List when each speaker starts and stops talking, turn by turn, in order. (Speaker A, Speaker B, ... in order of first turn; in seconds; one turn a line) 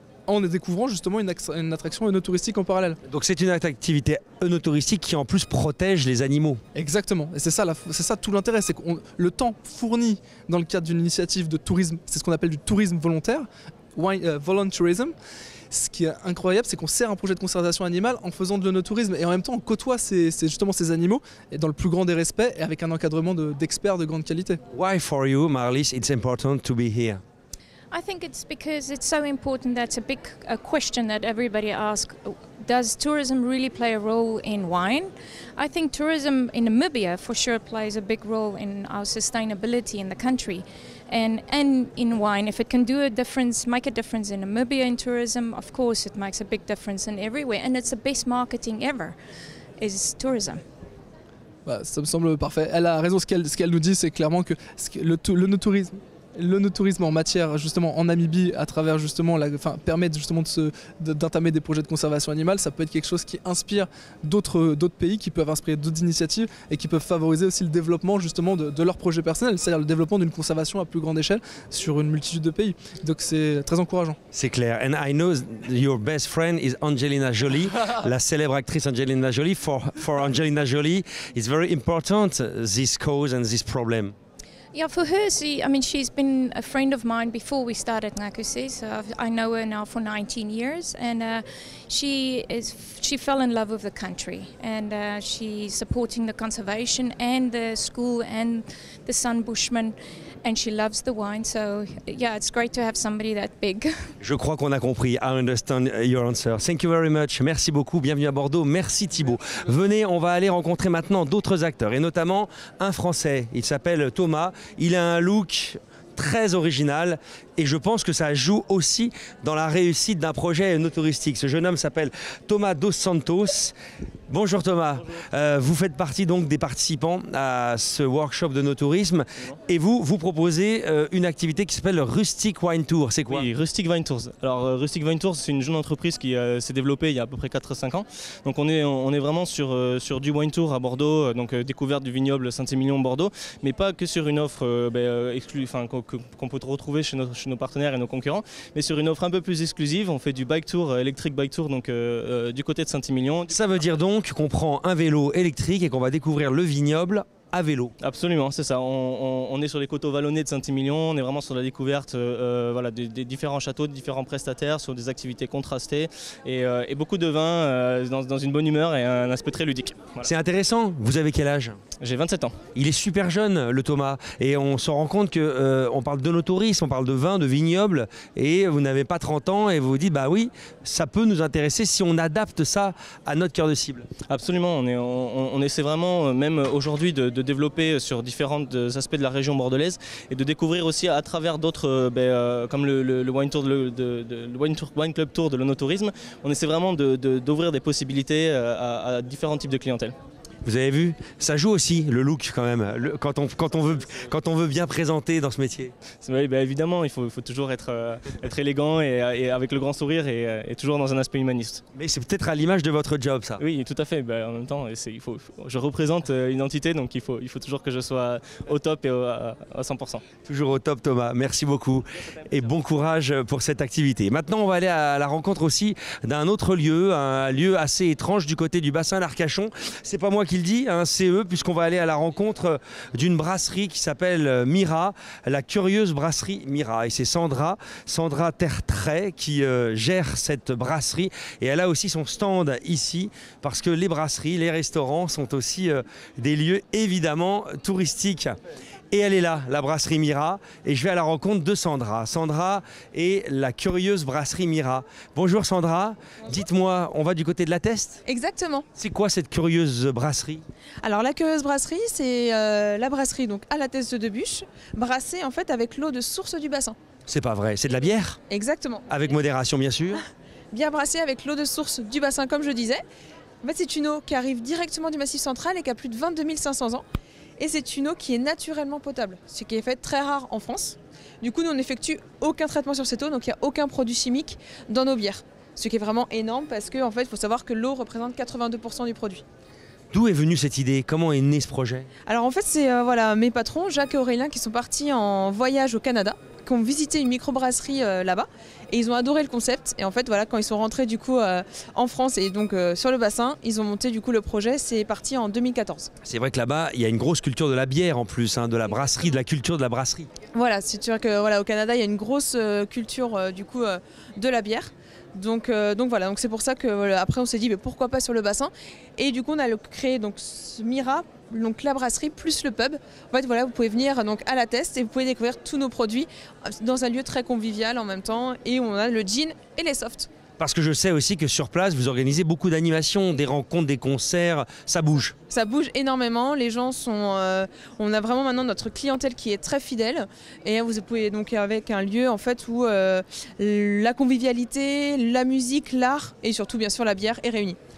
Speaker A: 0.3-3.0
Speaker B: 3.1-6.6
Speaker A: 6.8-15.1
Speaker A: 15.7-24.6
Speaker B: 24.7-27.2
Speaker C: 27.9-49.1
Speaker C: 49.8-50.6
Speaker A: 51.6-74.2
Speaker B: 74.3-84.1
Speaker C: 84.7-103.9
Speaker B: 104.2-123.8
Speaker B: 124.3-133.4
Speaker D: 133.3-153.6
Speaker B: 153.5-157.9
Speaker D: 158.0-170.3
Speaker B: 170.3-171.8
Speaker D: 172.0-172.6
Speaker B: 172.8-184.1
Speaker D: 184.3-200.2
Speaker B: 200.6-205.9
Speaker D: 206.2-211.8
Speaker B: 211.9-213.6
Speaker D: 213.6-220.2
Speaker B: 220.4-248.6
Speaker B: 249.1-258.2
Speaker E: 258.2-258.9
Speaker B: 258.9-260.6
Speaker E: 261.0-267.0
Speaker B: 267.3-268.4
Speaker E: 268.5-269.3
Speaker B: 269.1-270.2
Speaker E: 270.7-273.0
Speaker E: 273.6-277.0
Speaker E: 277.6-289.4
Speaker B: 290.1-292.1
Speaker E: 292.2-306.1
Speaker B: 306.2-310.3
Speaker E: 310.5-330.3
Speaker B: 330.6-335.3
Speaker E: 335.5-347.8